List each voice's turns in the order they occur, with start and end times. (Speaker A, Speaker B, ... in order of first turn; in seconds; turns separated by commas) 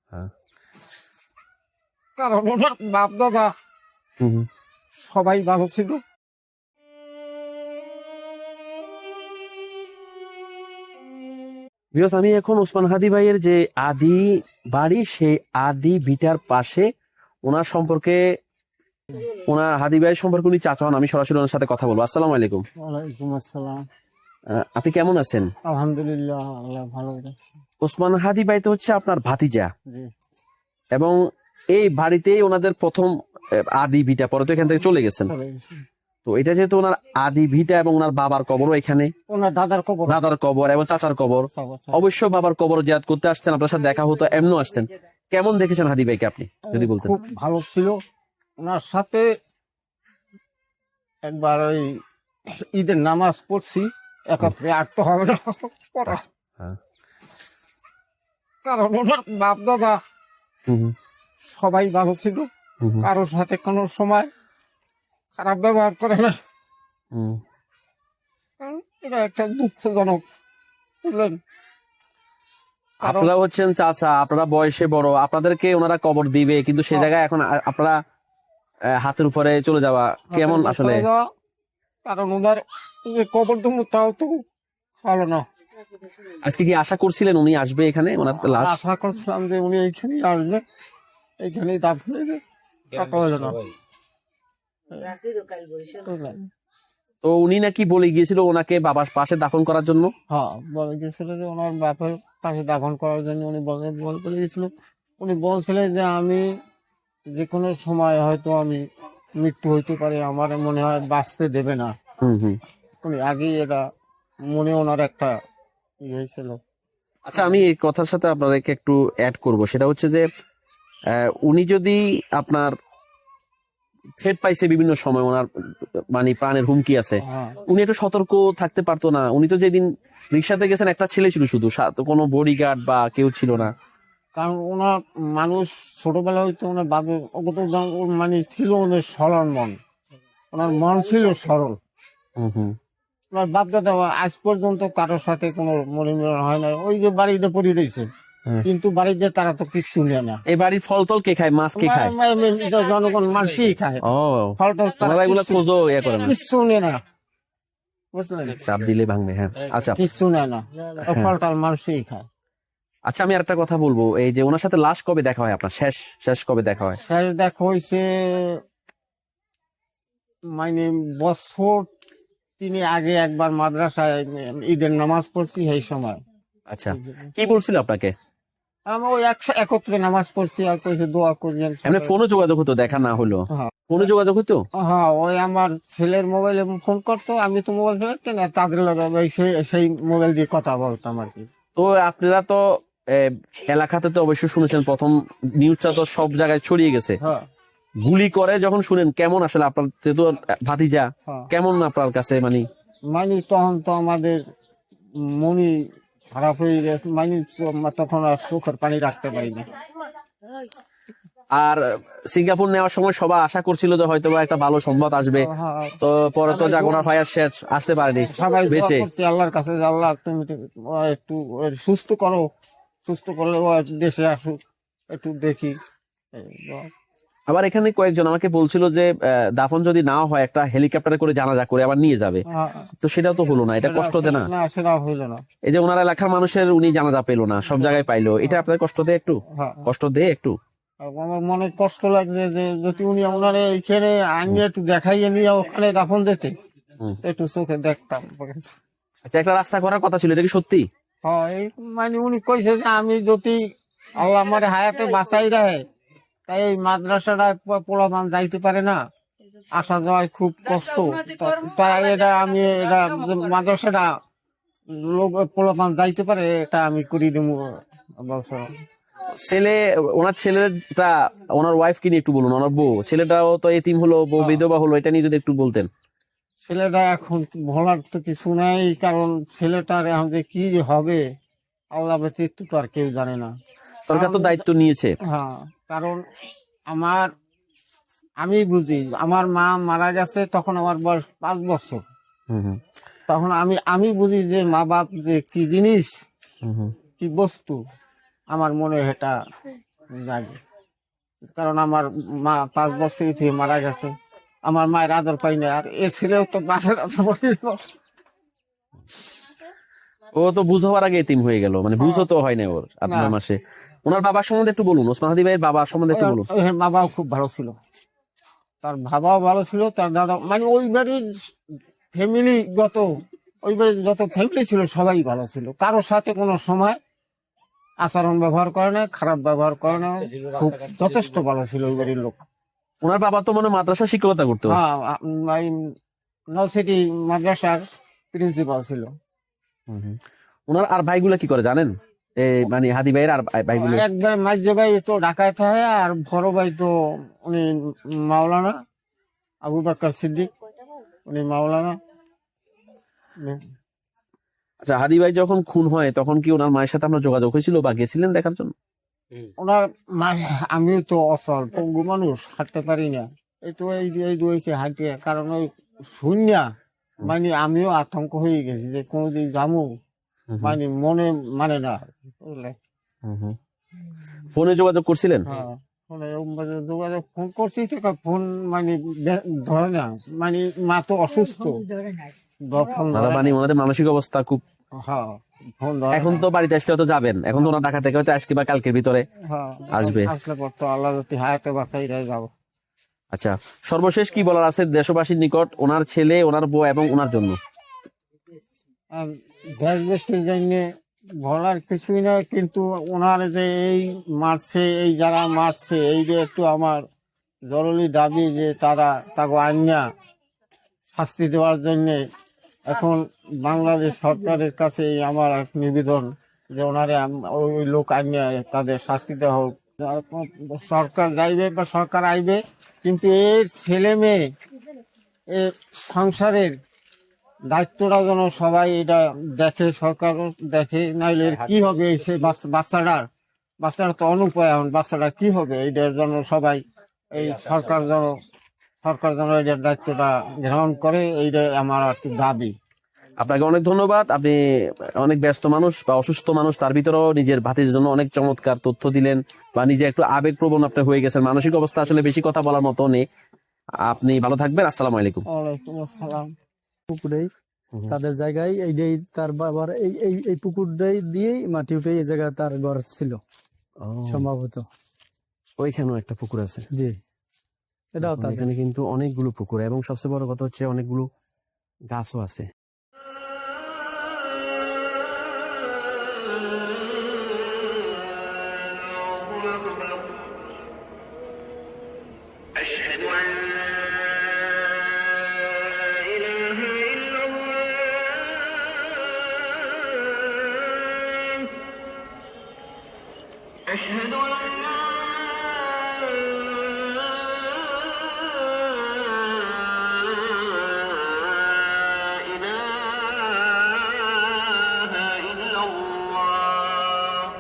Speaker A: 2.2-3.5, Speaker B: 4.2-4.5, Speaker A: 5.0-6.0, Speaker B: 11.9-16.9, Speaker B: 17.5-18.2, Speaker B: 19.2-22.6, Speaker A: 22.8-23.8, Speaker B: 24.6-25.5, Speaker A: 25.7-27.5, Speaker B: 27.8-29.7, Speaker B: 31.7-33.1, Speaker B: 33.8-35.3, Speaker A: 35.2-35.8, Speaker B: 36.3-39.1, Speaker A: 39.3-40.2, Speaker B: 40.1-47.1, Speaker A: 41.5-42.0, Speaker A: 46.7-48.0, Speaker A: 48.6-49.3, Speaker A: 51.3-51.9, Speaker A: 52.6-56.2, Speaker B: 56.1-56.8, Speaker A: 58.6-60.0, Speaker B: 60.7-60.9, Speaker A: 61.5-62.5, Speaker A: 63.0-64.3, Speaker A: 65.4-66.3, Speaker B: 67.1-67.4, Speaker A: 68.6-70.2, Speaker A: 71.0-71.4, Speaker A: 73.0-73.3, Speaker B: 73.0-78.0, Speaker B: 79.0-81.0, Speaker A: 80.3-81.2, Speaker A: 82.1-84.3, Speaker A: 85.0-85.4, Speaker B: 86.3-88.8, Speaker A: 88.4-90.6, Speaker A: 91.4-92.4, Speaker A: 92.9-93.6, Speaker A: 95.0-96.5, Speaker B: 97.2-100.1, Speaker A: 100.3-104.7, Speaker A: 105.2-106.4, Speaker A: 107.3-108.8, Speaker A: 109.4-111.9, Speaker B: 112.2-112.6, Speaker A: 113.0-113.8, Speaker A: 114.5-115.3, Speaker A: 116.1-116.6, Speaker B: 117.3-120.2, Speaker B: 121.1-122.7, Speaker B: 124.2-125.5, Speaker B: 126.1-133.7, Speaker A: 127.2-127.6, Speaker A: 134.3-139.8, Speaker A: 140.5-141.8, Speaker B: 142.4-142.8, Speaker A: 143.3-148.1, Speaker A: 148.7-150.4, Speaker B: 150.5-152.1, Speaker A: 151.8-154.1, Speaker B: 154.1-156.3, Speaker A: 154.6-155.6, Speaker A: 156.2-157.0, Speaker A: 158.2-158.6, Speaker B: 158.5-160.0, Speaker A: 159.9-162.3, Speaker B: 161.1-161.3, Speaker B: 163.1-167.0, Speaker A: 167.0-168.4, Speaker A: 170.6-171.9, Speaker A: 172.6-176.2, Speaker B: 176.7-178.1, Speaker A: 176.9-177.3, Speaker A: 178.9-182.1, Speaker B: 181.9-184.6, Speaker A: 183.5-184.1, Speaker A: 184.8-191.5, Speaker B: 191.8-192.6, Speaker B: 193.2-197.2, Speaker B: 198.0-202.7, Speaker A: 201.3-201.5, Speaker A: 203.1-204.4, Speaker A: 205.3-205.8, Speaker A: 206.3-209.7, Speaker B: 211.6-215.5, Speaker A: 215.4-217.1, Speaker B: 216.0-219.1, Speaker A: 218.2-222.4, Speaker A: 223.1-224.6, Speaker A: 225.1-225.8, Speaker A: 226.3-226.9, Speaker B: 227.5-232.4, Speaker A: 232.5-232.9, Speaker B: 233.0-234.5, Speaker A: 233.8-235.4, Speaker B: 235.7-240.6, Speaker A: 239.5-239.9, Speaker A: 241.0-246.5, Speaker A: 247.2-248.8, Speaker B: 249.3-250.9, Speaker A: 251.2-253.6, Speaker A: 254.2-255.8, Speaker A: 256.5-259.0, Speaker A: 259.8-264.1, Speaker A: 265.0-267.7, Speaker A: 268.2-268.6, Speaker B: 269.4-275.9, Speaker A: 276.7-281.2, Speaker A: 281.9-283.5, Speaker B: 284.1-285.1, Speaker A: 284.1-284.6, Speaker A: 285.3-286.2, Speaker A: 286.9-287.3, Speaker A: 288.4-292.0, Speaker B: 292.5-292.8, Speaker A: 293.3-296.1, Speaker B: 296.6-296.9, Speaker A: 297.2-297.8, Speaker A: 298.5-299.3, Speaker A: 300.2-300.6, Speaker A: 301.5-304.1, Speaker A: 304.7-307.8, Speaker B: 310.3-316.5, Speaker A: 312.0-312.3, Speaker A: 313.1-313.3, Speaker A: 316.1-317.8, Speaker A: 318.8-321.5, Speaker A: 322.1-323.1, Speaker A: 323.6-327.0, Speaker A: 328.0-332.4, Speaker B: 333.0-334.8, Speaker A: 334.7-335.7, Speaker A: 336.5-337.8, Speaker A: 338.3-339.1, Speaker B: 339.9-340.2, Speaker B: 340.7-344.1, Speaker A: 343.8-346.9, Speaker A: 348.3-348.7, Speaker A: 349.6-350.5, Speaker A: 351.3-351.9, Speaker B: 354.8-358.7, Speaker A: 359.6-366.7, Speaker A: 367.2-369.9, Speaker B: 370.5-370.8, Speaker A: 370.6-372.7, Speaker B: 373.3-373.6, Speaker B: 374.5-375.5, Speaker A: 375.5-383.6, Speaker B: 383.1-384.6, Speaker A: 385.0-386.4, Speaker B: 386.1-389.2, Speaker A: 389.5-392.5, Speaker B: 389.9-390.3, Speaker B: 393.3-397.6, Speaker A: 399.1-400.8, Speaker A: 401.4-407.0, Speaker A: 407.7-410.0, Speaker A: 411.1-412.2, Speaker A: 412.9-424.4, Speaker A: 425.5-426.7, Speaker A: 427.7-433.3, Speaker A: 433.8-436.8, Speaker A: 437.3-438.4, Speaker A: 439.0-442.7, Speaker B: 443.4-444.6, Speaker B: 445.2-453.2, Speaker B: 454.0-455.4, Speaker A: 455.5-456.5, Speaker C: 457.1-457.5, Speaker C: 458.1-463.4, Speaker B: 464.0-464.5, Speaker C: 464.3-464.9, Speaker B: 465.8-466.8, Speaker C: 468.2-468.7, Speaker B: 468.2-471.3, Speaker B: 472.1-472.7